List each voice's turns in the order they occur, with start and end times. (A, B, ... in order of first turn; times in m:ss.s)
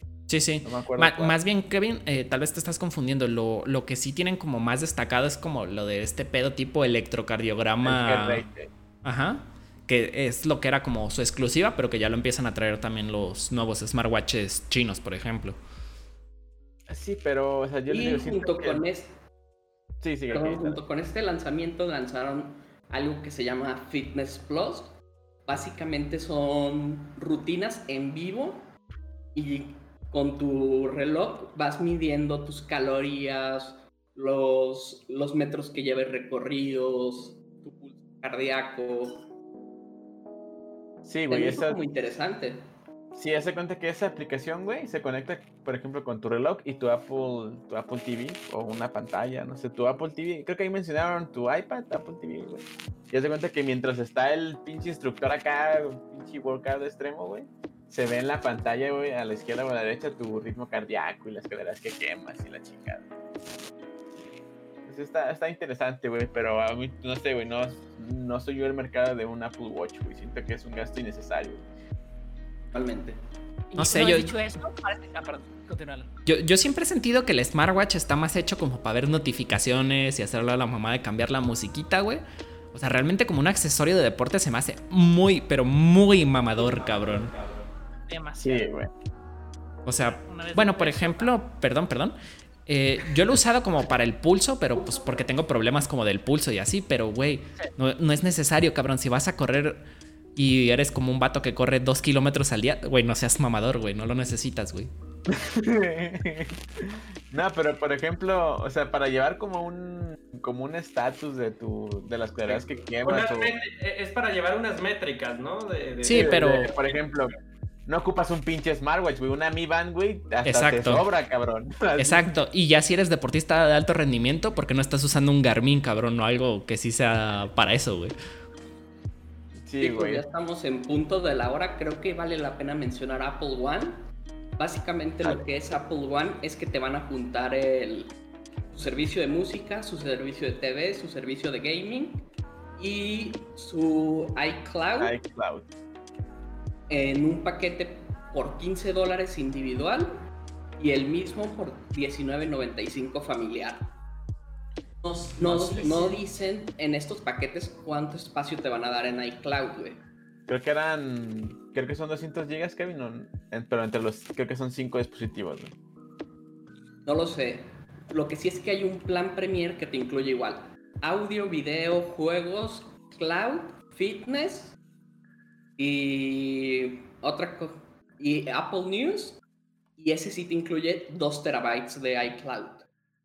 0:00.3-0:08.4 A
0:00.6-0:01.4 B
0:07.8-0:08.7 B
0:09.0-0:15.6 A
0:16.9-0:18.8 B
0:17.9-0:19.2 C
0:20.0-0:20.8 B
0:20.3-0:24.9 C
0:25.4-0:28.7 C
0:29.3-0:39.2 C
0:41.0-0:41.8 B
0:41.3-0:42.7 C
0:43.1-1:03.1 B
1:04.8-1:11.6 B
1:12.7-1:13.2 C
1:13.7-1:16.1 D
1:13.8-1:14.3 A
1:16.2-1:22.2 A
1:22.7-1:27.4 A
1:28.1-1:28.7 D
1:28.4-1:28.9 B
1:29.8-1:39.8 A
1:30.0-1:31.3 D
1:40.4-1:44.9 A
1:45.3-1:53.6 B
1:52.5-1:56.8 E
1:56.0-1:56.7 A
1:56.0-1:57.3 B
1:57.8-2:02.3 B
2:00.4-2:01.0 A
2:02.0-2:08.1 A
2:09.6-2:10.2 B
2:09.8-2:14.0 C
2:14.6-2:18.1 C
2:18.7-2:25.2 C
2:25.0-2:25.7 B
2:26.9-2:30.2 C
2:30.8-2:33.9 C
2:35.0-2:40.0 C
2:40.5-2:45.7 B
2:47.0-2:54.8 C
2:55.8-2:59.4 C
3:00.0-3:02.9 C